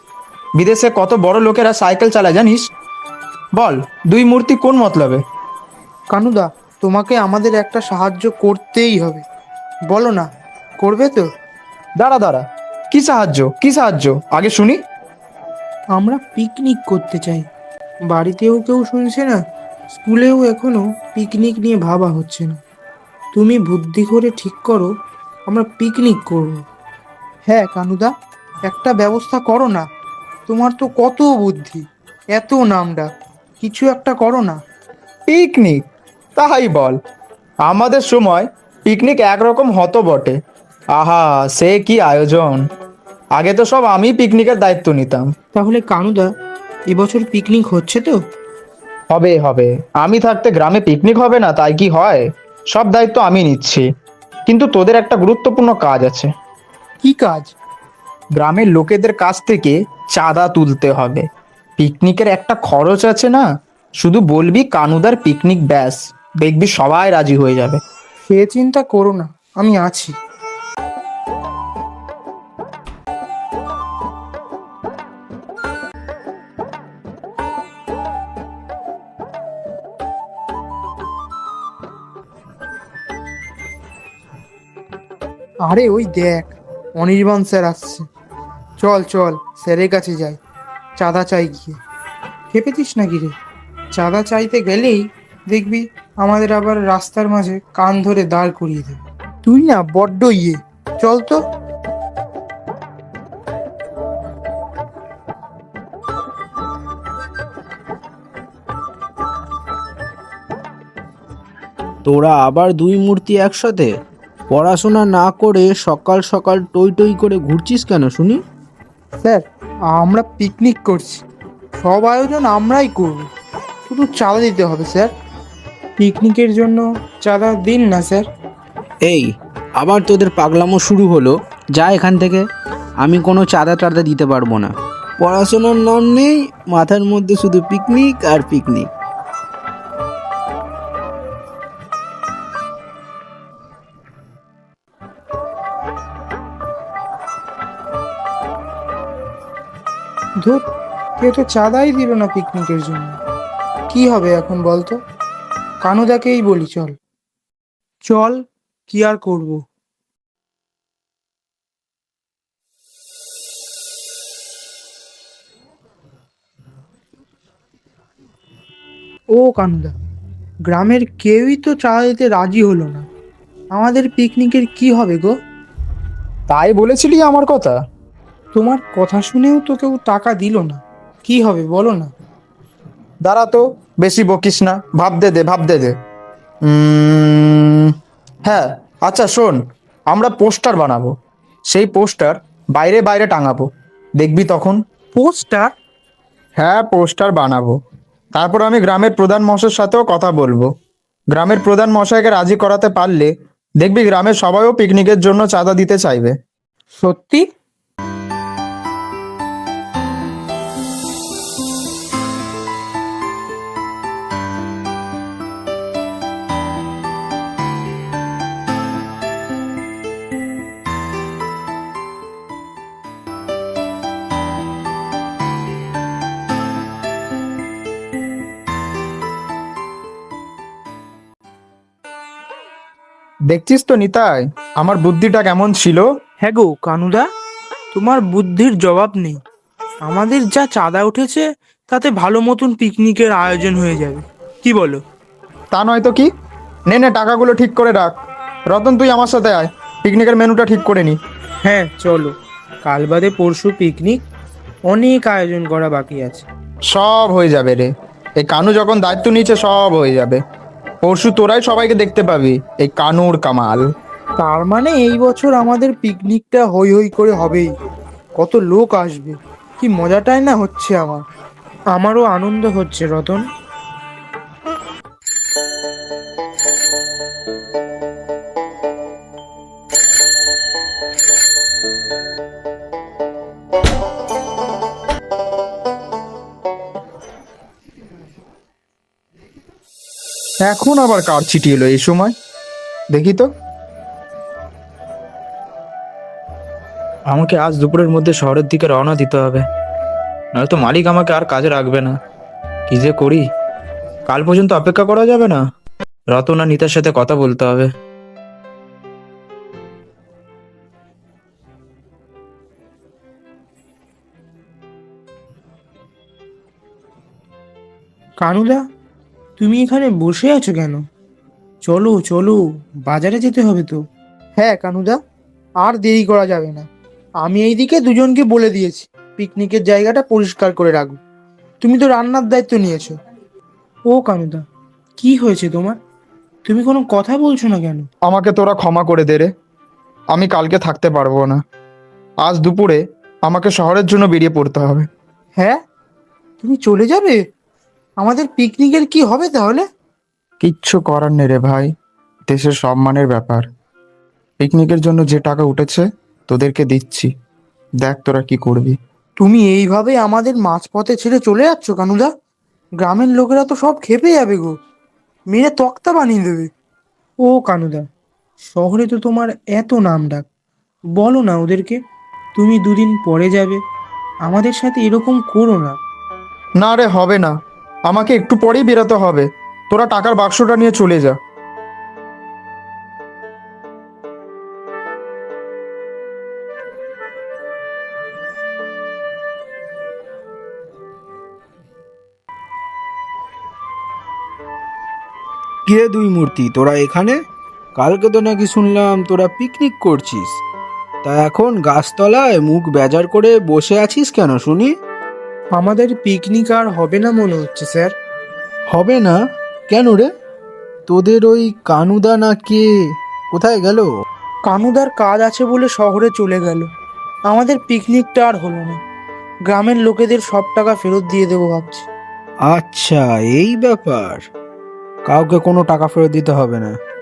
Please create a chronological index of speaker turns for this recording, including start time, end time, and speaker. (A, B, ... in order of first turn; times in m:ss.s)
0:00.6-0:02.6 A
0:03.6-0:05.2 A
0:06.1-0:09.2 B
0:09.9-0:10.3 B
0:10.8-0:11.3 B
0:12.0-0:14.8 A
0:15.9-0:17.4 B
0:18.1-0:19.4 B
0:19.9-0:22.6 B
0:23.3-0:24.9 B
0:25.5-0:26.6 B
0:27.5-0:28.1 B
0:28.7-0:29.8 B
0:30.5-0:33.1 B
0:33.6-0:34.6 B
0:35.3-0:35.8 A
0:36.4-0:37.0 A
0:37.6-0:40.4 A
0:40.9-0:42.6 A
0:43.4-0:45.3 A
0:45.5-0:46.3 B
0:46.9-0:48.2 B
0:49.1-0:53.8 A
0:54.5-0:56.3 A
0:57.0-0:57.5 B
0:58.4-1:01.2 A
1:01.8-1:03.4 A
1:04.0-1:07.8 A
1:08.3-1:10.1 B
1:25.6-1:28.0 B
1:28.8-1:30.4 B
1:31.0-1:31.8 B
1:32.5-1:33.4 B
1:33.9-1:41.4 B
1:52.0-1:53.9 C
1:54.5-1:58.4 C
1:59.2-2:01.2 B
2:01.8-2:03.3 B
2:03.9-2:05.1 B
2:06.0-2:08.2 B
2:09.0-2:12.4 C
2:13.0-2:18.9 C
2:31.2-2:33.2 B
2:33.9-2:35.0 B
2:35.8-2:36.9 B
2:38.0-2:39.6 B
2:49.3-2:50.0 B
2:50.7-2:53.0 B
2:53.7-2:55.3 B
2:56.5-2:57.8 A
2:58.5-3:02.1 B
3:03.2-3:05.9 A
3:06.6-3:07.9 A
3:08.4-3:09.6 A
3:10.1-3:11.1 A
3:11.7-3:13.7 A
3:14.2-3:14.8 A
3:15.1-3:15.7 B
3:16.6-3:17.8 A
3:18.3-3:20.7 A
3:21.3-3:26.3 A
3:26.9-3:27.4 B
3:53.5-3:56.0 A
3:56.4-3:57.2 B
3:57.9-3:59.4 B
4:00.0-4:05.0 B
4:05.7-4:06.3 A
4:06.9-4:08.2 A
4:08.7-4:11.2 A
4:11.6-4:14.2 B
4:14.9-4:16.4 B
4:16.9-4:20.4 A
4:21.0-4:23.8 A
4:24.4-4:27.7 B
4:28.4-4:31.2 B
4:31.9-4:33.4 B
4:50.6-4:52.3 A
4:53.1-4:53.5 A
4:57.3-4:59.6 A
5:00.6-5:02.2 A
5:02.9-5:03.4 A
5:04.3-5:05.6 A
5:06.3-5:07.9 A
5:18.4-5:18.8 B
5:19.6-5:21.0 B
5:21.8-5:24.0 B
5:24.6-5:25.2 B
5:25.8-5:26.9 B
5:27.4-5:31.2 B
5:31.8-5:33.2 B
5:34.1-5:34.6 B
5:35.2-5:36.0 B
5:36.6-5:38.1 B
5:38.2-5:39.5 A
5:40.3-5:41.6 A
5:42.4-5:45.1 A
5:46.6-5:47.4 B
5:48.2-5:49.8 B
5:50.6-5:51.9 A
5:52.5-5:53.6 A
5:54.6-5:57.3 A
5:58.0-5:59.0 A
5:59.4-6:02.3 B
6:03.0-6:04.7 B
6:05.5-6:06.7 B
6:07.4-6:08.0 B
6:08.6-6:10.4 B
6:11.2-6:12.0 B
6:12.5-6:13.8 B
6:14.5-6:16.0 B
6:16.8-6:17.5 A
6:18.1-6:21.4 A
6:35.8-6:37.4 C
6:38.0-6:40.6 C
6:41.2-6:44.9 C
6:45.7-6:48.1 B
6:48.9-6:49.4 C
6:49.9-6:50.3 C
6:51.1-6:52.8 C
6:53.5-6:54.1 C
6:54.7-6:56.9 B
6:57.5-6:59.0 B
6:59.7-7:02.1 B
7:02.7-7:04.4 C
7:05.2-7:06.9 C